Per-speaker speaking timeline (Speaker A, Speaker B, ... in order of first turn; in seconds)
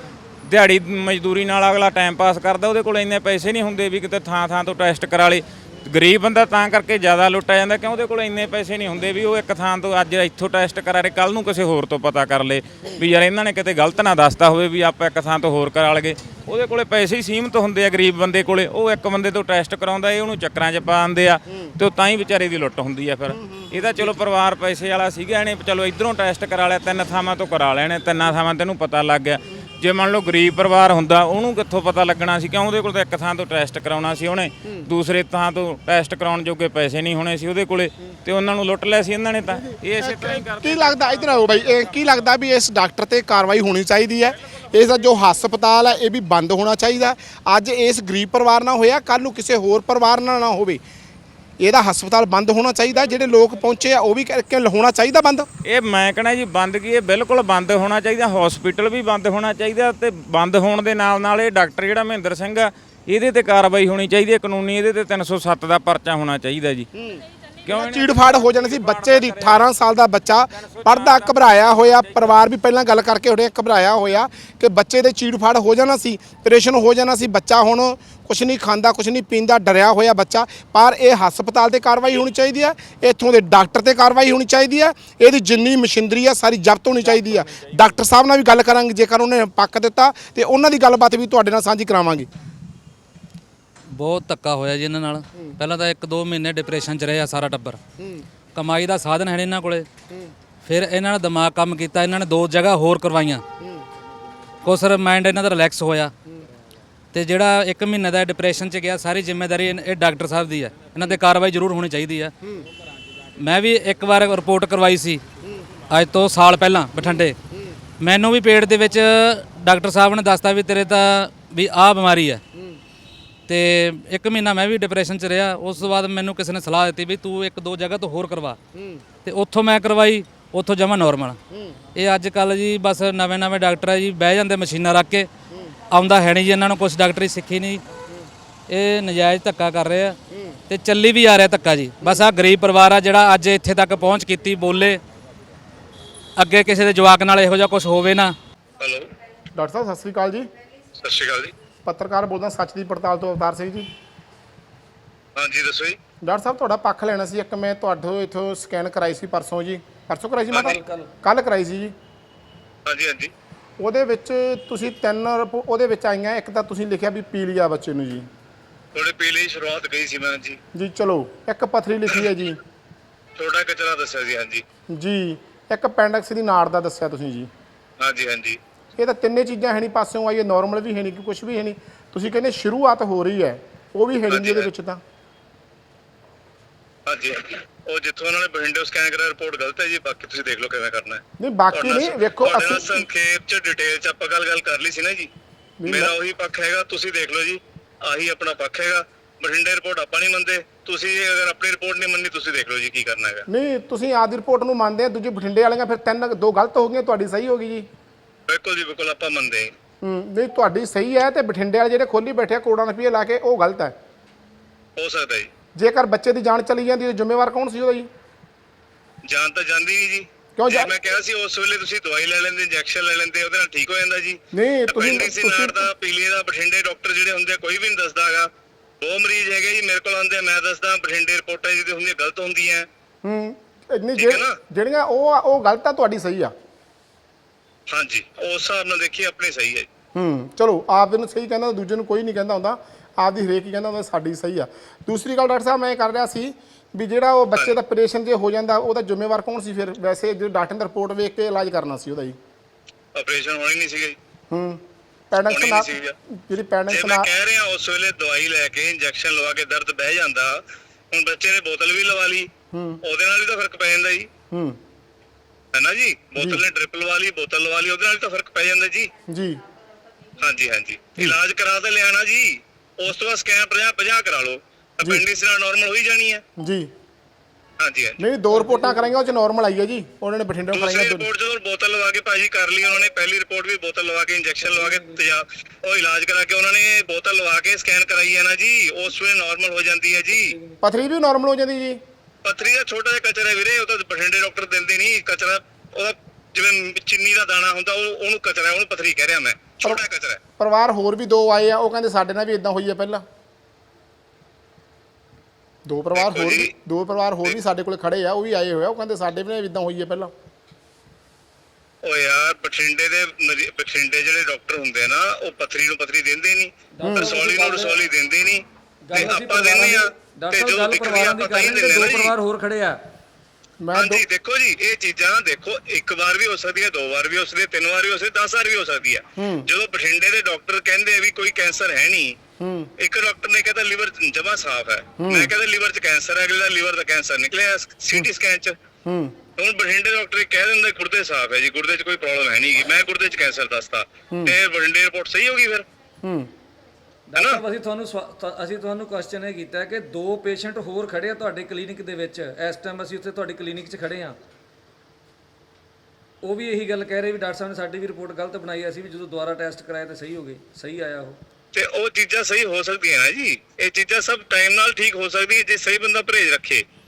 Speaker A: 0.4-42.1, 55.6-66.9, 67.6-69.7, 70.6-72.4
Speaker B: 40.0-50.8, 51.6-55.5, 67.0-92.3, 149.5-150.5, 151.8-153.9, 156.2-161.9, 163.8-168.3, 170.7-172.6, 174.9-177.5, 179.0-185.0, 191.4-193.0, 195.8-196.1, 203.5-207.9, 210.0-213.9, 215.8-218.1, 220.5-220.9, 224.5-225.8, 233.2-236.5, 240.1-252.3, 254.5-257.3, 262.7-263.0, 264.5-264.8, 266.4-266.6, 269.3-269.6, 276.6-276.9, 278.2-281.3, 290.8-292.0, 300.6-303.2, 305.9-310.3, 317.0-317.4, 323.8-324.2, 329.4-329.7, 332.6-332.9, 335.2-335.5, 339.1-339.4, 346.2-346.5
Speaker C: 93.9-97.8, 98.5-99.9, 100.6-103.4, 104.6-106.1, 107.1-112.3, 113.3-115.2, 115.9-117.4, 118.0-122.4, 123.5-128.6, 129.2-131.4, 131.9-135.3, 135.9-137.8, 138.7-140.2, 140.7-145.0, 146.3-148.3
Speaker D: 148.8-149.1, 151.0-151.5, 155.3-156.0, 162.8-163.3, 168.9-170.6, 173.4-174.6, 178.0-178.6, 184.3-184.7, 187.1-195.3, 195.8-203.4, 208.5-209.7, 214.9-215.5, 219.2-228.5, 229.0-232.9, 234.1-234.6, 237.9-239.9, 253.1-254.2, 255.4-256.1, 256.9-262.5, 263.0-264.3, 265.7-269.1, 270.4-276.4, 277.8-278.2, 280.7-290.6, 292.4-300.4, 306.1-306.7, 312.0-322.4, 323.9-332.4, 333.0-338.8, 339.6-345.9, 347.4-347.6, 361.7-366.8
Speaker E: 160.6-161.1, 316.9-318.1, 319.1-323.0, 347.3-354.4, 356.4-361.4